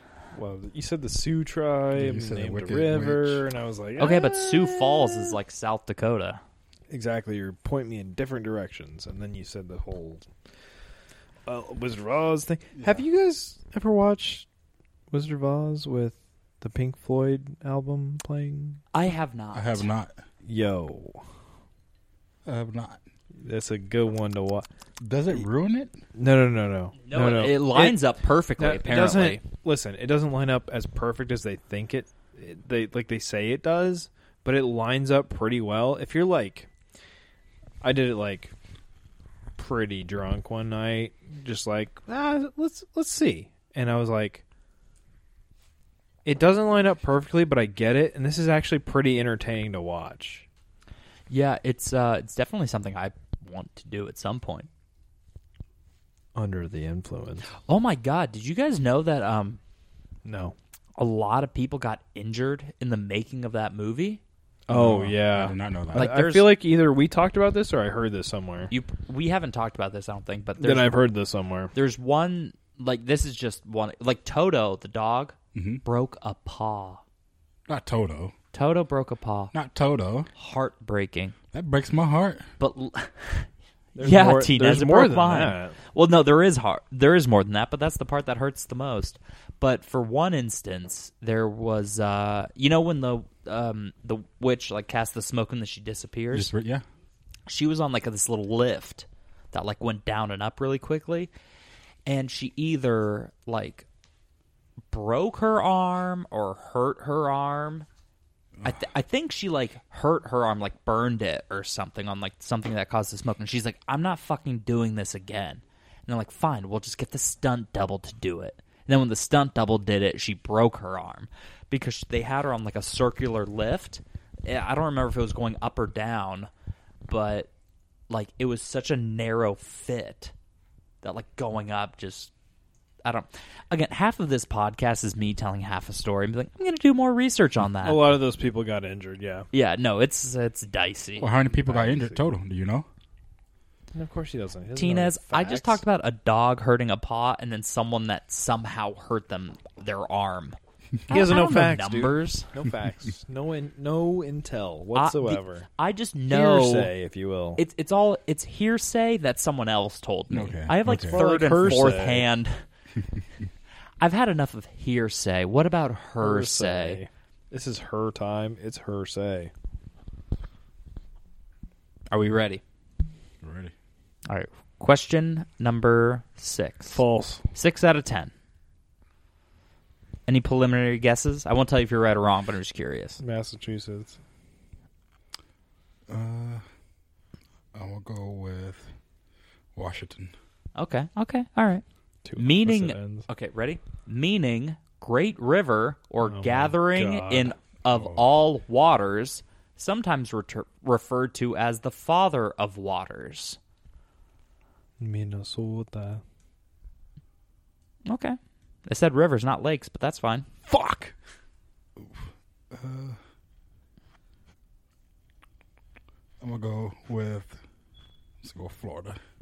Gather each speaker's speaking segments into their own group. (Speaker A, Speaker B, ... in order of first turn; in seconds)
Speaker A: 0.3-5.3, 6.9-10.3, 11.4-14.4, 15.1-18.8, 20.4-21.2, 23.4-24.7, 26.1-28.0, 28.6-36.7, 37.8-38.5, 39.6-44.4, 46.2-50.5, 56.3-57.5, 60.2-60.5, 64.7-68.7, 70.6-71.7, 84.0-85.8, 137.8-139.5, 141.4-142.2, 143.9-145.8, 151.1-155.7, 156.3-157.6, 161.1-162.3, 166.2-169.5, 176.9-177.4, 183.2-184.2, 192.2-193.3, 196.2-197.5, 205.0-206.2, 210.7-211.1
Speaker B: 1.9-3.4, 19.5-20.1, 22.4-23.0, 25.0-26.0, 64.7-66.1, 75.5-75.8, 77.7-78.3, 79.5-80.3, 81.5-82.5, 96.3-96.8, 141.2-142.8, 160.3-161.7, 173.4-173.7, 186.1-186.6, 187.7-188.9, 189.7-190.3, 212.0-213.2, 216.4-217.6, 218.4-219.2
Speaker C: 4.0-6.4, 18.9-19.9, 27.0-29.4, 51.3-54.7, 57.6-59.6, 61.0-64.2, 65.9-66.5, 68.7-71.0, 71.7-77.0, 78.5-79.5, 80.3-81.3, 82.6-83.5, 84.0-96.5, 97.5-101.3, 102.0-103.8, 104.9-107.8, 108.6-126.5, 127.1-127.5, 128.1-130.3, 131.0-132.3, 133.0-138.1, 139.5-141.3, 144.8-150.6, 151.1-152.5, 154.9-156.9, 157.6-162.6, 164.0-167.0, 172.1-172.6, 174.3-177.0, 177.5-178.3, 180.3-183.2, 190.8-191.8, 192.4-203.6, 208.1-210.5